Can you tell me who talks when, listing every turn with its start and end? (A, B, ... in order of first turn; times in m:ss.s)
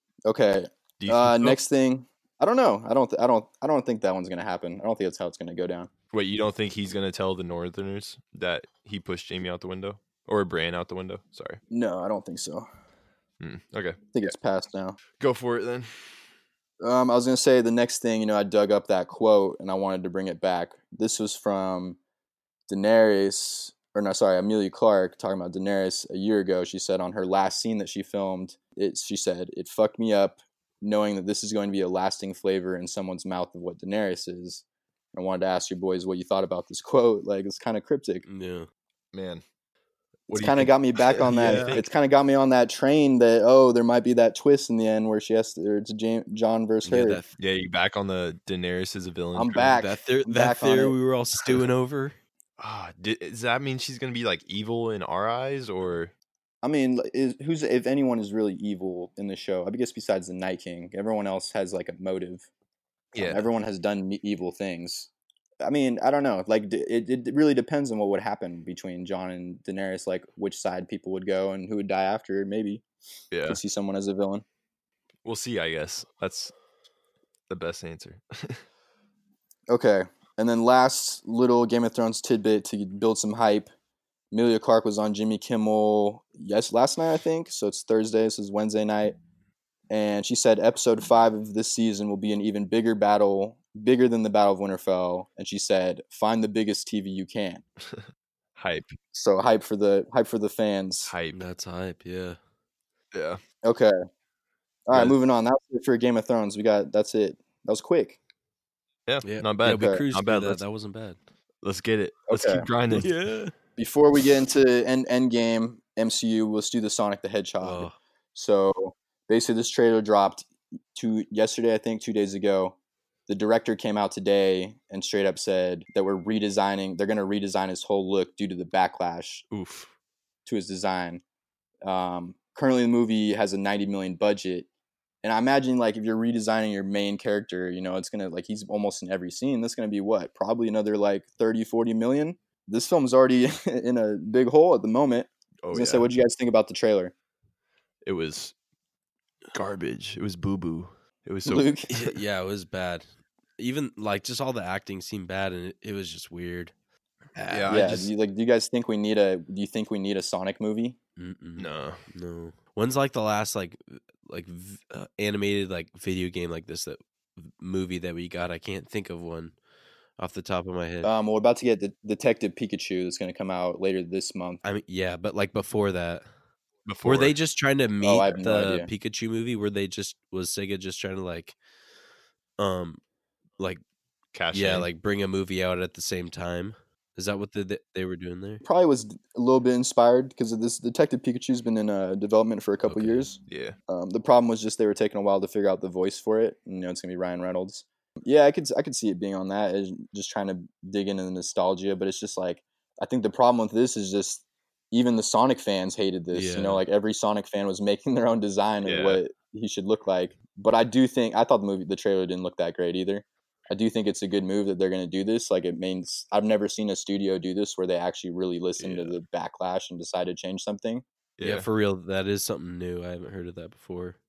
0:00.2-0:05.9 A
0:01.0-0:01.6 B
0:06.1-0:11.6 B
0:11.7-0:12.7 A
0:13.4-0:14.3 B
0:14.1-0:15.0 A
0:15.2-0:16.2 B
0:16.8-0:22.0 A
0:22.7-0:38.2 A
0:38.3-0:38.7 C
0:39.1-0:39.4 B
0:40.3-0:47.2 A
0:40.3-0:41.8 B
0:41.3-0:41.8 C
0:46.8-0:47.3 C
0:47.4-0:49.8 B
0:49.3-0:50.9 A
0:49.7-0:52.2 C
0:52.6-0:56.1 B
0:56.6-1:02.4 A
1:03.1-1:03.4 B
1:03.2-1:05.1 A
1:05.6-1:12.8 A
1:13.3-1:13.6 B
1:13.5-1:14.4 A
1:15.2-1:16.5 B
1:17.5-1:18.6 B
1:19.7-1:23.7 A
1:24.3-1:29.2 A
1:29.9-1:37.6 A
1:38.6-1:39.0 B
1:39.1-1:41.1 A
1:41.1-1:41.4 B
1:41.3-1:42.4 C
1:43.1-1:43.4 B
1:43.6-1:43.9 A
1:44.9-1:48.2 A
1:49.1-1:50.6 B
1:49.2-1:51.2 C
1:49.7-1:50.0 A
1:51.6-1:53.1 B
1:52.3-1:52.7 A
1:52.9-1:53.5 C
1:53.8-2:02.8 A
1:57.6-1:58.0 C
2:03.3-2:09.4 A
2:09.5-2:09.9 B
2:10.4-2:11.2 A
2:11.8-2:14.7 A
2:15.2-2:27.1 A
2:25.6-2:26.1 B
2:28.0-2:28.5 B
2:29.5-2:32.1 B
2:31.4-2:31.9 A
2:31.9-2:33.0 C
2:33.6-2:36.7 C
2:37.3-2:38.0 C
2:37.5-2:38.1 B
2:37.7-2:41.0 A
2:41.2-2:49.5 C
2:41.6-2:42.0 B
2:50.2-2:51.1 C
2:51.0-2:54.6 A
2:54.6-2:56.2 C
2:56.8-2:57.4 B
2:57.0-3:01.6 C
2:58.0-2:58.9 A
3:02.6-3:03.0 C
3:04.3-3:04.9 B
3:04.5-3:08.6 C
3:08.6-3:41.0 A
3:12.9-3:13.2 C
3:13.4-3:13.8 B
3:26.3-3:26.8 C
3:28.8-3:29.2 B
3:38.8-3:39.2 B
3:41.4-3:41.7 B
3:41.4-3:44.2 C